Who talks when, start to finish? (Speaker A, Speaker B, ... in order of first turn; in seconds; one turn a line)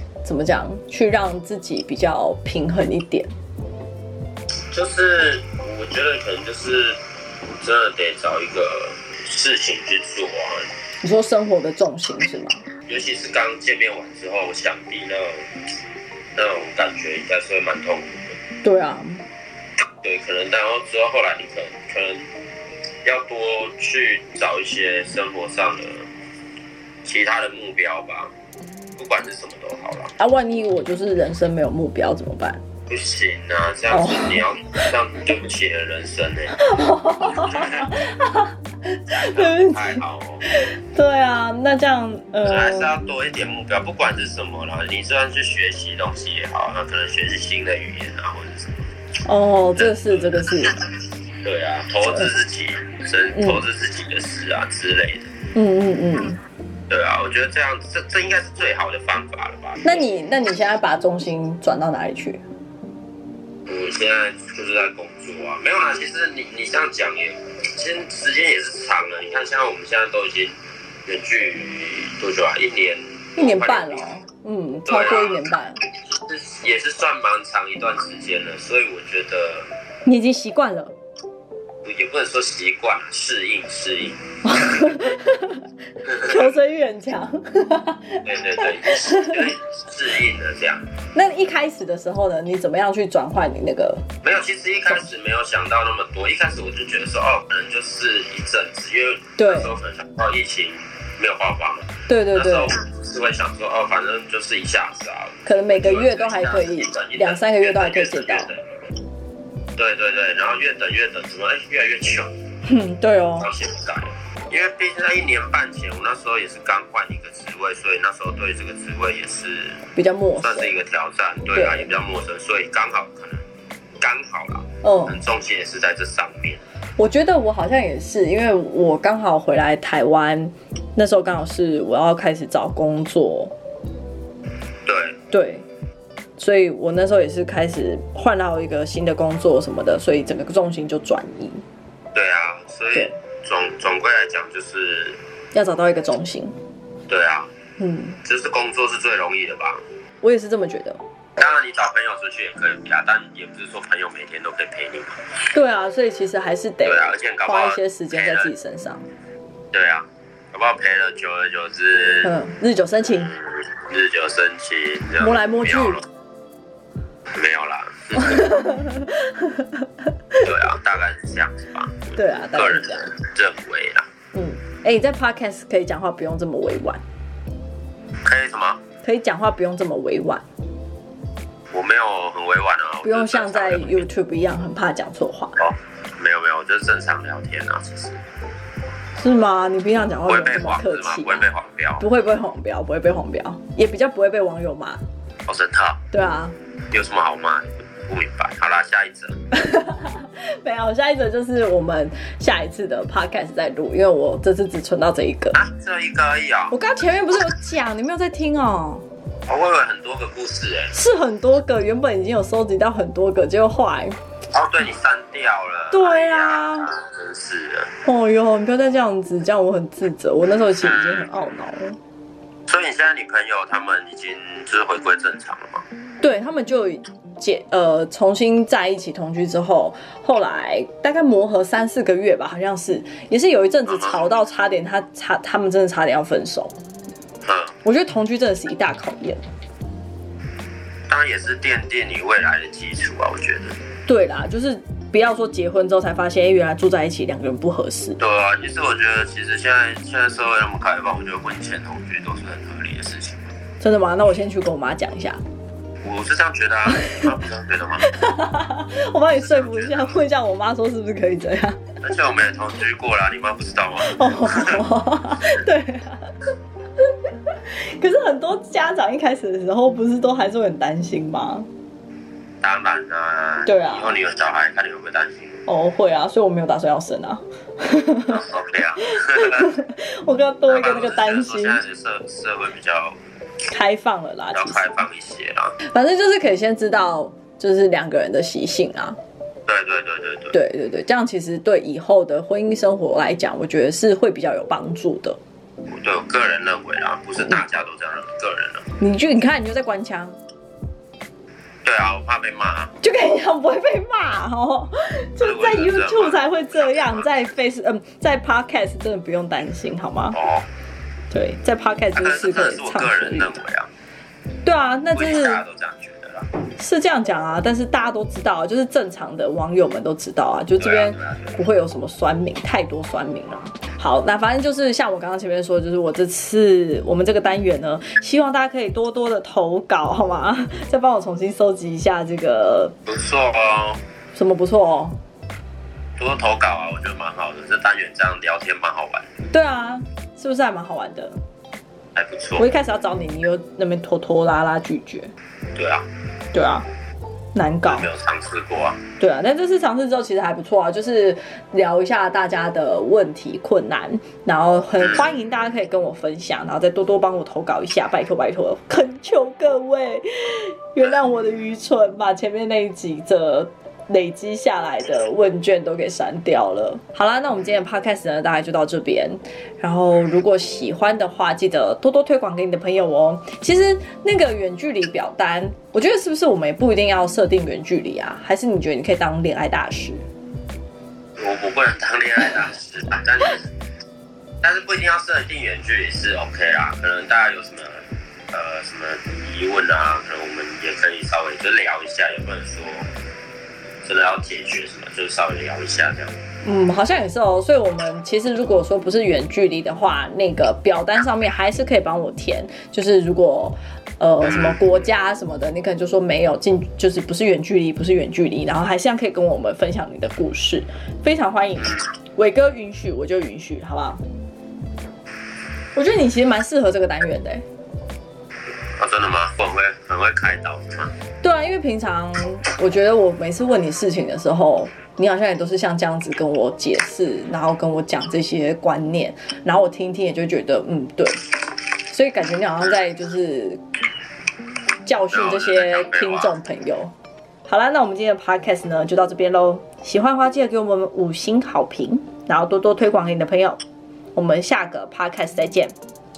Speaker A: 0.2-3.3
Speaker B: 4.7-7.0
Speaker B: 7.6-10.7
Speaker A: 11.0-12.6
Speaker B: 12.9-15.5
Speaker B: 16.3-18.3
Speaker A: 18.6-19.2
Speaker B: 20.0-22.3
Speaker B: 23.0-26.1
Speaker B: 27.0-28.3
Speaker B: 29.0-30.1
Speaker A: 30.2-32.6
Speaker B: 32.9-36.7
Speaker A: 33.9-34.4
Speaker A: 36.6-40.0
Speaker B: 37.2-37.9
Speaker B: 39.1-40.4
Speaker A: 40.5-42.9
Speaker B: 42.4-48.9
Speaker A: 49.2-50.9
Speaker B: 51.4-55.3
Speaker A: 52.0-52.3
Speaker A: 55.5-56.4
Speaker B: 56.9-60.0
Speaker A: 59.8-62.4
Speaker B: 63.7-70.5
Speaker B: 71.0-74.1
Speaker A: 73.4-75.8
Speaker B: 74.9-75.4
Speaker B: 76.1-79.7
Speaker A: 80.0-80.9
Speaker B: 81.8-84.9
Speaker A: 84.5-89.5
Speaker B: 86.1-86.4
Speaker B: 88.2-90.8
Speaker A: 91.1-94.0
Speaker B: 94.2-108.6
Speaker A: 99.4-99.7
Speaker A: 102.1-102.7
Speaker A: 105.4-108.5
Speaker B: 109.8-112.3
Speaker A: 112.6-113.5
Speaker B: 113.4-119.8
Speaker A: 119.9-120.7
Speaker B: 120.4-123.4
Speaker A: 121.5-121.9
Speaker B: 124.0-126.6
Speaker A: 124.8-125.2
Speaker A: 127.0-133.5
Speaker B: 134.8-135.2
Speaker A: 135.3-135.7
Speaker A: 136.4-141.6
Speaker B: 142.1-145.2
Speaker A: 145.5-146.5
Speaker B: 147.1-147.5
Speaker A: 147.8-148.2
Speaker B: 148.2-149.8
Speaker A: 150.2-151.0
Speaker B: 151.4-155.2
Speaker A: 155.5-159.1
Speaker B: 156.8-158.5
Speaker B: 159.7-162.3
Speaker A: 162.2-163.3
Speaker B: 163.1-166.0
Speaker A: 165.2-166.0
Speaker B: 167.3-168.5
Speaker A: 168.2-169.8
Speaker B: 170.4-174.1
Speaker A: 172.2-173.1
Speaker A: 174.3-177.0
Speaker B: 178.2-178.8
Speaker A: 179.0-180.4
Speaker B: 181.7-184.0
Speaker A: 183.0-185.6
Speaker B: 185.6-188.2
Speaker A: 189.1-191.4
Speaker B: 190.2-192.0
Speaker A: 192.0-195.0
Speaker B: 195.4-196.0
Speaker A: 196.1-196.5
Speaker B: 196.9-199.4
Speaker A: 199.5-205.6
Speaker B: 205.5-206.8
Speaker A: 206.7-209.0
Speaker B: 209.5-210.9
Speaker A: 210.9-214.2
Speaker B: 214.5-217.9
Speaker A: 215.9-216.9
Speaker A: 218.0-222.0
Speaker B: 220.8-221.3
Speaker B: 222.7-225.8
Speaker A: 226.2-236.7
Speaker B: 233.9-234.2
Speaker B: 237.4-237.7
Speaker A: 237.8-239.4
Speaker B: 241.1-243.8
Speaker A: 244.1-248.2
Speaker B: 248.2-253.5
Speaker A: 253.8-255.4
Speaker B: 256.0-258.1
Speaker A: 256.9-257.3
Speaker A: 258.1-261.8
Speaker B: 262.0-264.8
Speaker A: 264.0-266.3
Speaker A: 267.5-271.7
Speaker B: 272.6-275.6
Speaker A: 273.6-274.2
Speaker A: 275.6-278.4
Speaker B: 277.9-279.7
Speaker A: 279.1-281.8
Speaker B: 280.7-283.2
Speaker A: 283.7-284.9
Speaker B: 284.5-285.7
Speaker A: 285.9-289.2
Speaker B: 289.7-290.6
Speaker A: 290.5-295.4
Speaker B: 295.9-298.9
Speaker A: 299.0-300.4
Speaker B: 301.8-302.9
Speaker A: 303.0-310.4
Speaker B: 305.4-307.3
Speaker B: 310.3-310.7
Speaker A: 311.3-313.6
Speaker B: 312.1-313.9
Speaker A: 314.6-315.6
Speaker B: 315.1-316.5
Speaker A: 316.8-332.9
Speaker B: 320.8-321.6
Speaker B: 333.1-334.0
Speaker A: 334.3-335.2
Speaker B: 336.2-339.3
Speaker A: 339.5-341.3
Speaker B: 342.1-342.7
Speaker A: 342.6-345.3
Speaker B: 345.7-346.0
Speaker A: 346.5-346.9
Speaker A: 347.5-348.1
Speaker B: 347.8-349.0
Speaker A: 349.2-380.2
Speaker B: 381.4-383.7
Speaker B: 384.6-393.1
Speaker B: 394.0-396.4
Speaker A: 396.6-414.2
Speaker B: 404.4-404.8
Speaker A: 415.9-417.6
Speaker B: 419.0-421.1
Speaker A: 421.4-431.4
Speaker A: 432.1-433.8
Speaker A: 435.0-437.1
Speaker B: 435.3-436.5
Speaker A: 437.6-443.8
Speaker A: 444.3-445.9